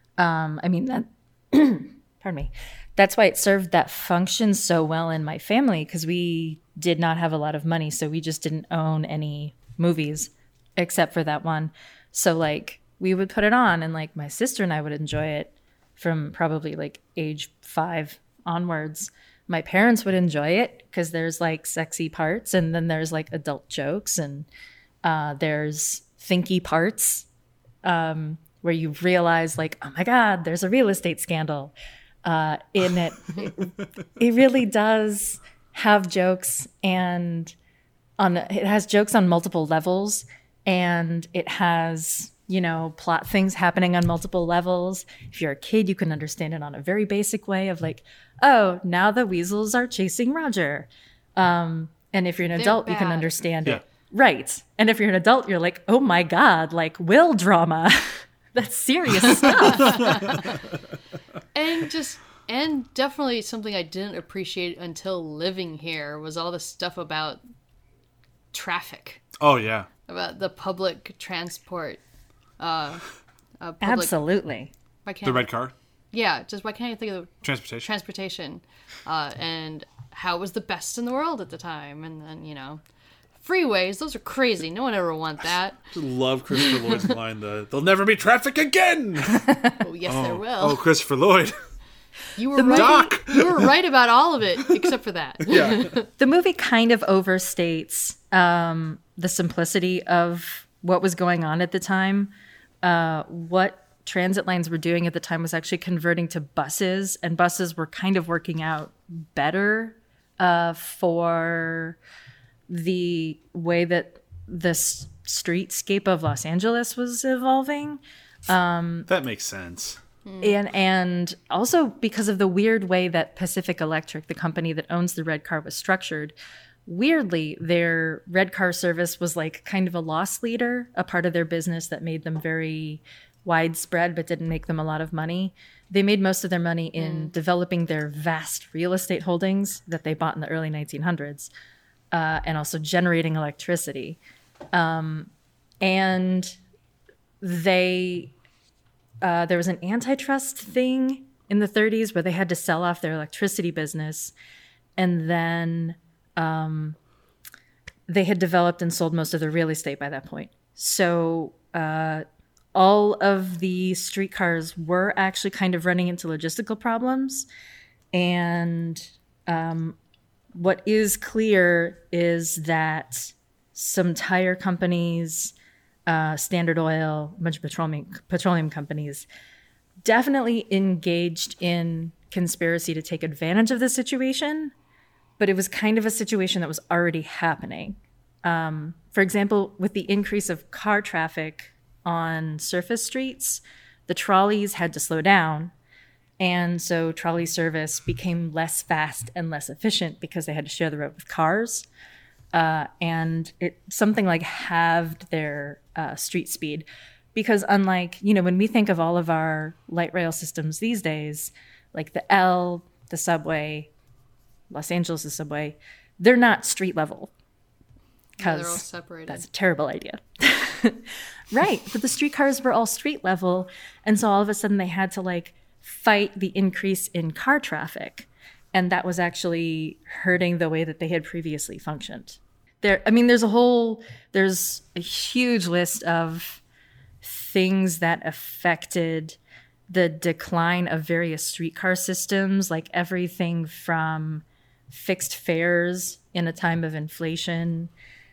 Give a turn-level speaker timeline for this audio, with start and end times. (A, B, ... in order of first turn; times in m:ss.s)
0:00.2-0:24.5 A
0:25.0-0:27.3 A
0:27.8-0:31.7 A
0:32.2-0:37.5 A
0:38.2-1:00.4 A
0:52.5-0:53.3 B
0:59.5-1:00.6 B
1:01.5-1:07.4 B
1:08.5-1:09.2 B
1:09.4-1:09.9 C
1:10.1-1:12.0 B
1:12.6-1:13.0 B
1:13.6-1:14.1 B
1:13.8-1:14.7 A
1:15.0-1:15.5 B
1:15.2-1:15.7 C
1:16.1-1:22.8 B
1:17.4-1:17.9 C
1:23.4-1:25.8 B
1:25.9-1:29.5 C
1:26.5-1:27.1 B
1:29.5-1:29.8 A
1:29.8-1:30.8 B
1:30.0-1:31.6 C
1:32.4-1:36.1 B
1:32.6-1:33.0 A
1:32.7-1:33.7 C
1:35.5-1:35.9 C
1:36.2-1:42.3 A
1:42.8-1:52.0 A
1:52.7-1:59.1 A
1:59.1-2:00.0 C
2:00.2-2:00.6 B
2:00.4-2:06.3 A
2:06.8-2:21.5 A
2:17.0-2:17.3 B
2:22.1-2:24.2 A
2:24.7-2:26.5 A
2:27.4-2:28.3 A
2:29.2-2:34.3 A
2:35.0-2:37.0 A
2:38.1-2:47.4 A
2:48.1-2:50.0 A
2:50.5-2:55.5 A
2:56.1-2:59.2 A
3:00.0-3:04.7 A
3:05.4-3:15.7 A
3:16.4-3:21.8 A
3:22.5-3:33.9 A
3:34.7-3:37.3 A
3:38.4-3:39.4 B
3:38.4-3:56.6 A
3:57.2-3:59.4 A
3:59.9-4:07.9 A